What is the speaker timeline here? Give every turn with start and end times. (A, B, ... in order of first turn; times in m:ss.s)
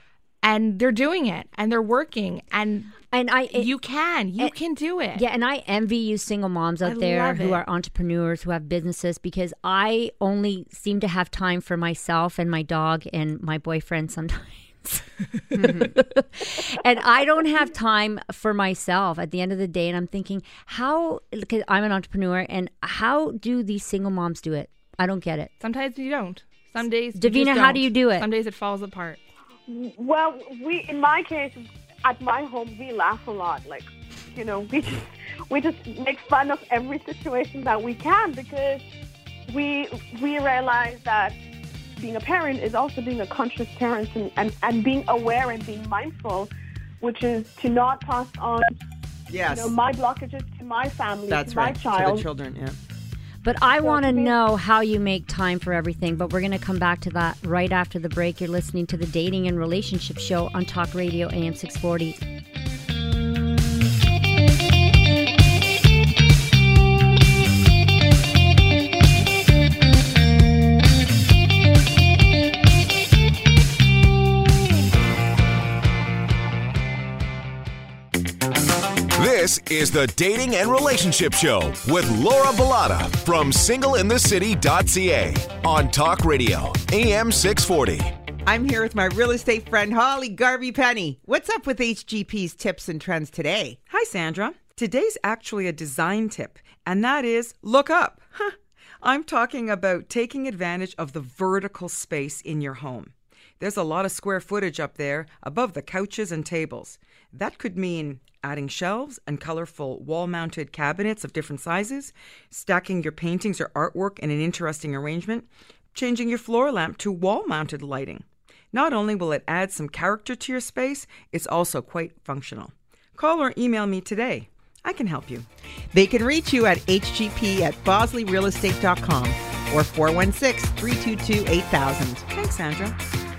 0:00.4-0:05.2 A
0:03.1-0:03.7 B
0:05.2-0:25.5 B
0:06.8-0:07.6 A
0:15.6-0:15.9 C
0:25.6-0:29.2 A
0:27.2-0:28.3 B
0:29.7-0:38.8 D
0:39.5-0:41.4 D
0:42.0-0:46.5 D
0:47.0-0:48.7 D
0:49.3-0:49.7 C
0:49.5-0:52.3 D
0:51.3-0:52.8 C
0:53.4-1:02.2 B
0:53.8-0:54.4 D
1:19.2-1:28.1 E
1:28.5-1:33.8 C
1:33.9-2:05.5 F
2:05.9-2:12.2 C
2:12.3-2:13.0 F